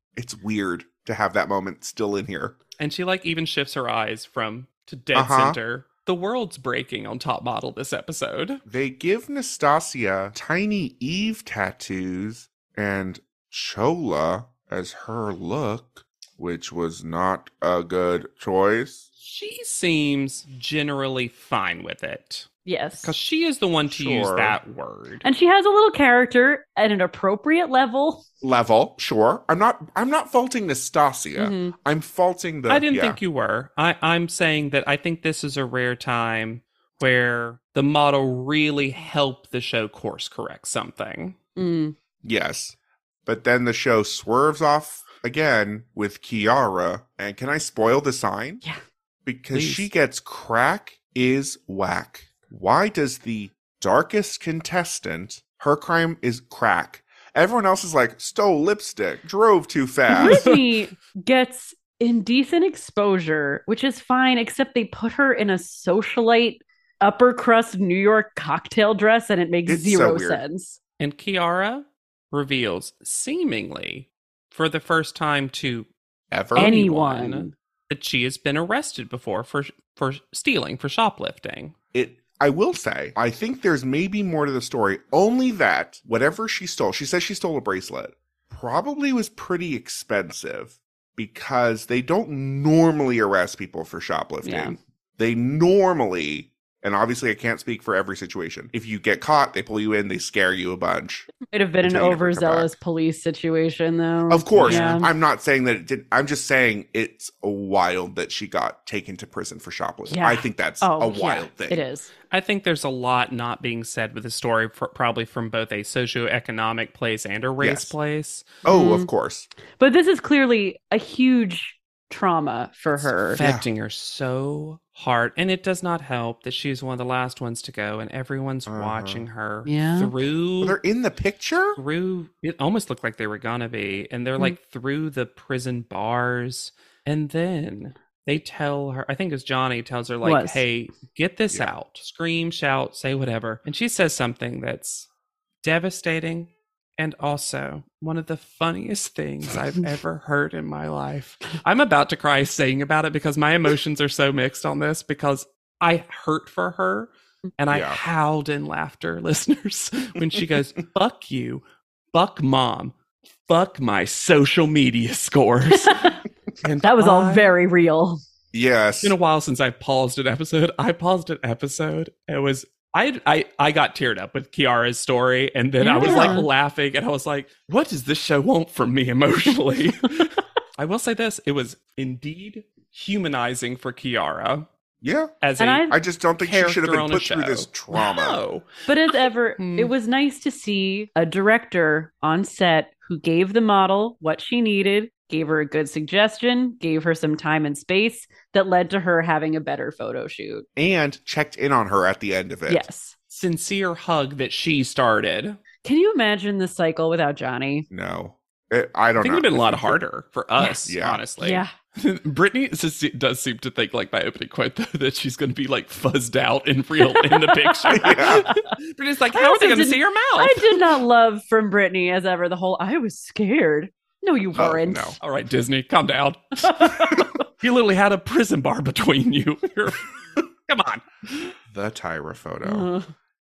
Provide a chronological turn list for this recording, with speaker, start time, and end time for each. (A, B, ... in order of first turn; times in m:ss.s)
0:00.2-0:02.6 A
0:02.8-0:08.6 B
0:05.1-0:05.6 A
0:08.7-0:19.1 A
0:19.2-0:22.5 B
0:22.6-0:23.1 C
0:23.0-0:25.2 B
0:23.9-0:24.6 A
0:25.2-0:28.2 C
0:28.4-0:33.2 A
0:31.4-0:31.7 C
0:32.7-0:41.4 B
0:41.6-0:42.0 C
0:42.2-0:48.6 A
0:49.2-1:00.5 A
0:49.5-0:49.9 B
1:00.1-1:00.6 B
1:00.2-1:10.8 C
1:09.7-1:10.4 A
1:11.0-1:15.9 B
1:16.3-1:16.7 A
1:16.5-1:21.8 B
1:16.6-1:17.5 C
1:21.9-1:41.3 A
1:34.4-1:34.8 C
1:41.5-1:45.1 C
1:41.8-1:42.7 A
1:44.3-1:51.8 A
1:44.6-1:45.1 B
1:50.1-1:52.1 C
1:52.3-1:58.6 B
1:57.6-1:57.9 A
1:58.6-1:59.5 A
1:58.7-1:59.1 C
1:59.8-2:03.4 C
2:03.0-2:10.8 B
2:03.4-2:03.6 A
2:08.7-2:09.3 A
2:09.7-2:10.1 C
2:10.6-2:11.8 A
2:11.8-2:25.1 B
2:20.2-2:20.6 C
2:25.6-2:43.0 B
2:37.7-2:38.0 A
2:43.5-2:47.6 B
2:45.7-2:46.2 C
2:46.8-2:48.2 C
2:48.5-2:49.2 A
2:49.0-3:04.7 B
2:55.8-2:56.5 C
2:56.0-2:56.4 A
3:05.0-3:05.4 A
3:05.4-3:05.9 B
3:05.6-3:06.0 C
3:05.9-3:08.4 A
3:06.4-3:08.7 B
3:08.9-3:20.7 C
3:09.2-3:09.9 B
3:20.8-3:22.9 A
3:22.7-3:23.2 C
3:23.3-3:25.6 B
3:25.8-3:27.9 C
3:27.9-3:30.0 A
3:29.2-3:40.8 B
3:30.9-3:31.2 A
3:31.4-3:31.7 C
3:37.0-3:38.7 C
3:37.9-3:38.5 A
3:39.3-3:45.2 C
3:44.6-3:45.2 A
3:45.2-3:51.6 B
3:46.6-3:47.4 C
3:51.7-3:52.9 A
3:52.6-3:53.1 C